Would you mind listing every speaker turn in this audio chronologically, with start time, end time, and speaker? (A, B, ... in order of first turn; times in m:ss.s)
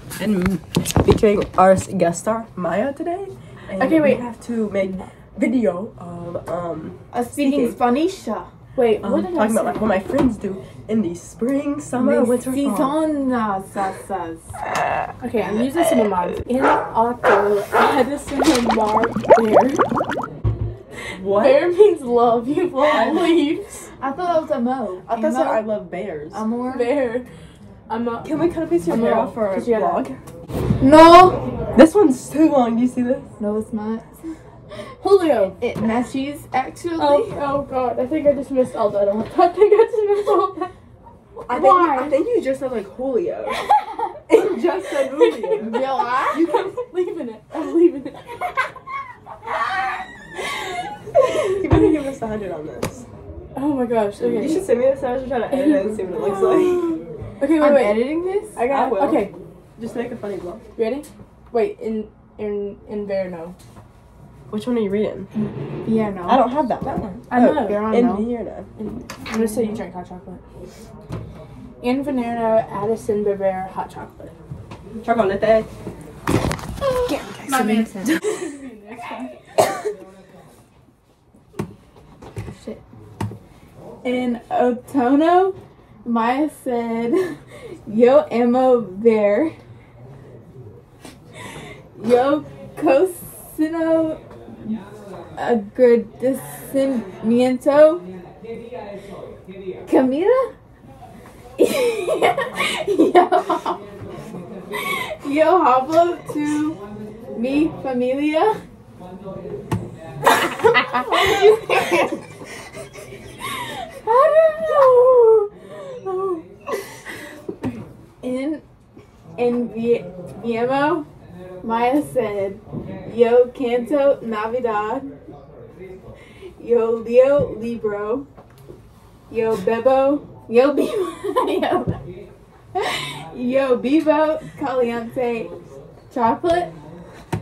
0:00.2-0:07.8 A
0:03.8-0:04.2 B
0:04.8-0:05.0 B
0:07.1-0:08.5 C
0:08.8-0:10.0 B
0:09.0-0:13.0 A
0:12.0-0:12.3 B
0:12.4-0:14.5 C
0:15.2-0:19.8 B
0:21.1-0:21.7 A
0:21.2-0:23.9 B
0:22.8-0:23.4 A
0:24.0-0:25.7 C
0:25.0-0:26.4 A
0:26.3-0:26.9 C
0:26.6-0:27.2 B
0:27.9-0:28.3 B
0:28.2-0:30.2 A
0:28.9-0:30.1 B
0:30.8-0:31.4 C
0:31.7-0:33.3 A
0:33.4-0:34.2 C
0:35.0-0:35.6 B
0:35.6-0:37.4 C
0:37.0-0:40.7 B
0:41.4-0:43.6 A
0:41.5-0:42.2 C
0:44.3-0:46.7 A
0:44.8-0:48.4 B
0:45.6-0:46.4 C
0:51.4-0:51.9 B
0:51.5-0:53.1 A
0:53.5-0:54.6 B
0:54.2-0:57.0 A
0:55.5-0:56.2 B
0:56.1-0:57.0 C
0:57.4-0:59.3 B
0:57.5-0:58.6 C
0:58.7-1:00.6 A
1:00.8-1:03.5 B
1:04.5-1:05.3 A
1:05.8-1:06.4 C
1:06.2-1:08.7 A
1:07.1-1:07.9 B
1:07.5-1:08.3 C
1:08.8-1:10.4 B
1:09.3-1:09.8 C
1:11.8-1:14.3 B
1:15.0-1:15.7 A
1:16.8-1:18.1 C
1:17.1-1:19.4 B
1:22.5-1:22.8 C
1:24.0-1:29.6 C
1:31.9-1:34.8 C
1:35.4-1:38.0 C
1:39.8-1:40.5 C
1:41.6-1:43.8 C
1:45.2-1:46.8 C
1:47.3-1:48.6 C
1:50.7-1:52.2 C
1:50.8-1:51.9 B
1:54.0-1:55.0 C
1:54.6-1:56.4 B
1:58.2-1:58.6 C
1:59.4-2:01.1 C
2:01.6-2:05.1 C
2:06.6-2:08.3 C
2:09.3-2:12.0 C
2:12.7-2:15.5 C
2:16.1-2:16.7 C